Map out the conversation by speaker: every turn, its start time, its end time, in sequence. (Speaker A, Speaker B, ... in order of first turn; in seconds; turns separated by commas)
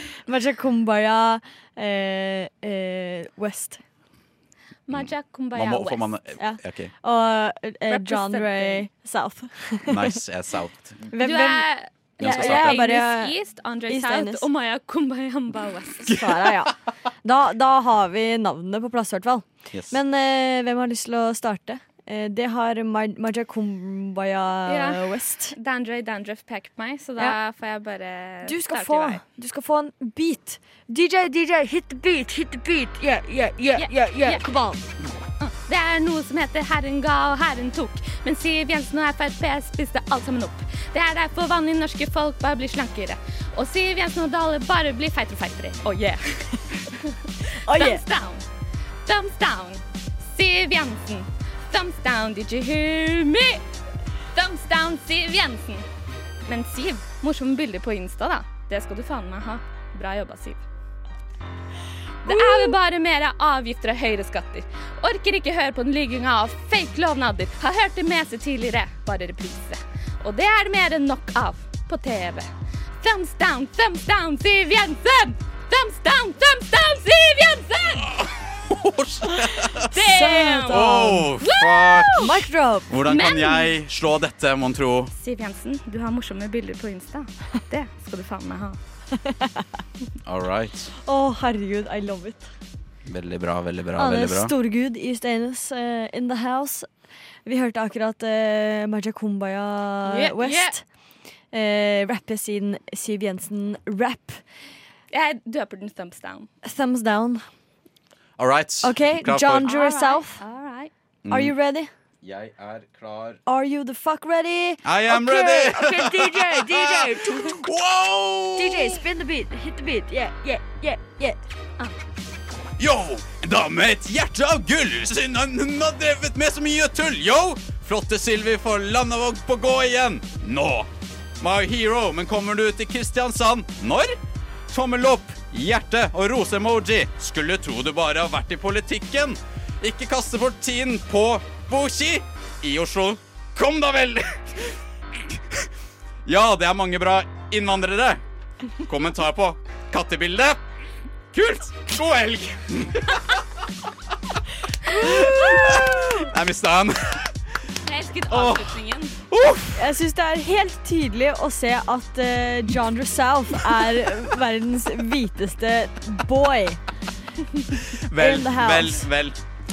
Speaker A: 0.3-3.8, Speaker B: 4.9-6.1, Speaker C: 4.9-6.9, Speaker A: 6.4-10.2, Speaker B: 7.9-8.9, Speaker C: 9.9-11.1, Speaker A: 11.1-11.7, Speaker B: 11.2-16.1, Speaker A: 12.2-13.3, Speaker C: 12.2-12.9, Speaker A: 13.9-14.4, Speaker A: 16.0-25.6, Speaker C: 19.7-20.0, Speaker B: 24.6-29.2, Speaker A: 28.4-34.8, Speaker B: 33.8-34.5, Speaker B: 35.4-47.1, Speaker A: 47.6-48.0, Speaker B: 47.7-48.4, Speaker B: 49.1-53.6, Speaker B: 54.3-55.9, Speaker B: 56.5-60.6, Speaker B: 62.2-72.5, Speaker A: 62.3-62.8, Speaker B: 73.0-78.1, Speaker C: 78.2-80.0, Speaker B: 79.9-82.4, Speaker A: 80.0-81.3, Speaker C: 80.7-82.3, Speaker A: 82.2-82.9, Speaker C: 82.9-85.1, Speaker B: 83.1-83.7, Speaker B: 85.1-88.8, Speaker A: 89.2-89.7, Speaker C: 90.2-90.9, Speaker A: 91.0-92.5, Speaker C: 93.1-94.5, Speaker A: 94.0-96.9, Speaker A: 97.5-100.8, Speaker B: 100.0-100.8, Speaker A: 101.5-104.4, Speaker B: 105.1-106.5, Speaker A: 106.6-107.4, Speaker C: 108.4-109.8, Speaker A: 108.8-110.4, Speaker B: 109.6-110.9, Speaker C: 111.2-111.5, Speaker A: 111.3-111.9, Speaker C: 112.2-113.4, Speaker A: 113.5-117.6, Speaker C: 114.8-119.0, Speaker A: 118.6-121.4, Speaker C: 122.8-130.9, Speaker C: 131.4-134.2, Speaker C: 134.7-144.4, Speaker C: 145.3-145.6, Speaker C: 146.3-148.2, Speaker C: 148.8-150.6, Speaker C: 151.3-153.0, Speaker C: 154.9-157.3, Speaker B: 157.9-159.2, Speaker C: 158.3-158.7, Speaker C: 159.3-159.9, Speaker A: 159.8-166.8, Speaker C: 167.9-169.4, Speaker A: 168.1-169.1